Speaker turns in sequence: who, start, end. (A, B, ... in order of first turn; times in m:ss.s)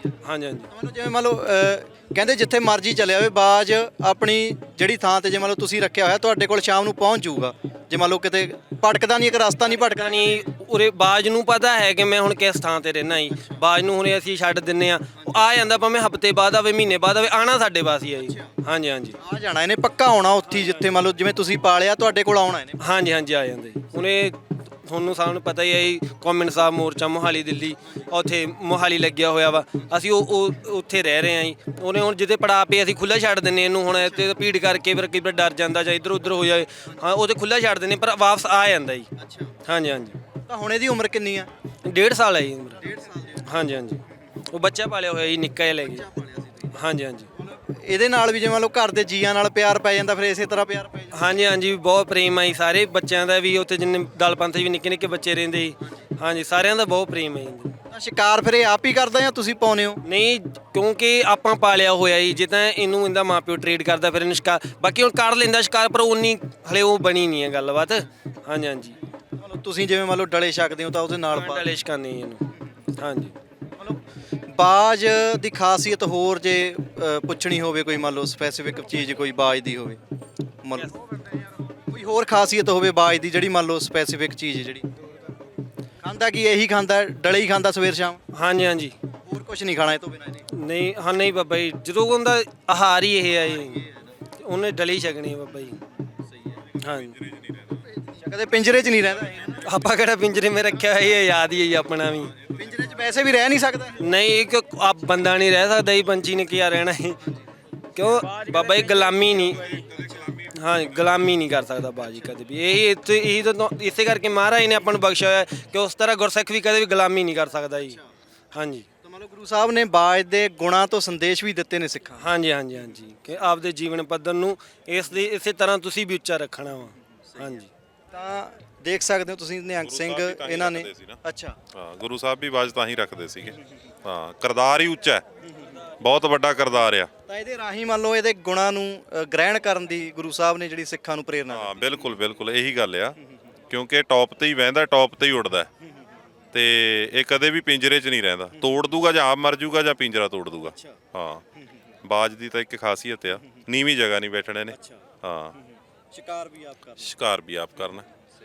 0:00.2-0:00.7 A
0:00.7-0:10.4 B
0:09.7-0:19.2 A
0:19.2-0:22.8 B
0:22.8-0:39.1 A
0:39.2-0:39.5 B
0:39.6-0:40.2 A
0:40.5-0:41.5 B
0:41.8-0:42.8 A
0:42.8-0:43.4 B
0:43.4-0:46.1 A
0:45.9-0:46.7 B
0:46.7-0:47.3 A
0:47.4-0:51.2 B
0:51.1-0:57.8 A
0:57.9-1:00.0 B
1:00.0-1:09.0 A
1:09.4-1:11.7 B
1:11.3-1:13.3 A
1:13.8-1:20.0 B
1:20.6-1:20.9 B
1:21.9-1:24.9 B
1:26.0-1:28.2 B
1:28.3-1:28.9 A
1:29.2-1:30.4 B
1:30.5-1:33.8 A
1:34.4-1:35.8 A
1:36.8-1:37.2 A
1:38.1-1:39.6 B
1:39.6-1:42.4 A
1:42.5-1:44.0 B
1:44.0-1:47.2 A
1:47.9-1:58.0 A
1:58.5-1:58.9 A
1:59.0-2:02.2 B
2:02.2-2:07.7 A
2:08.1-2:11.6 B
2:09.8-2:11.2 C
2:11.7-2:15.2 C
2:16.0-2:17.1 C
2:17.3-2:22.0 B
2:21.5-2:23.2 C
2:23.7-2:25.7 C
2:26.5-2:31.4 C
2:30.7-2:31.0 B
2:32.0-2:35.5 C
2:34.7-2:35.0 B
2:36.1-2:37.1 B
2:37.0-2:38.0 C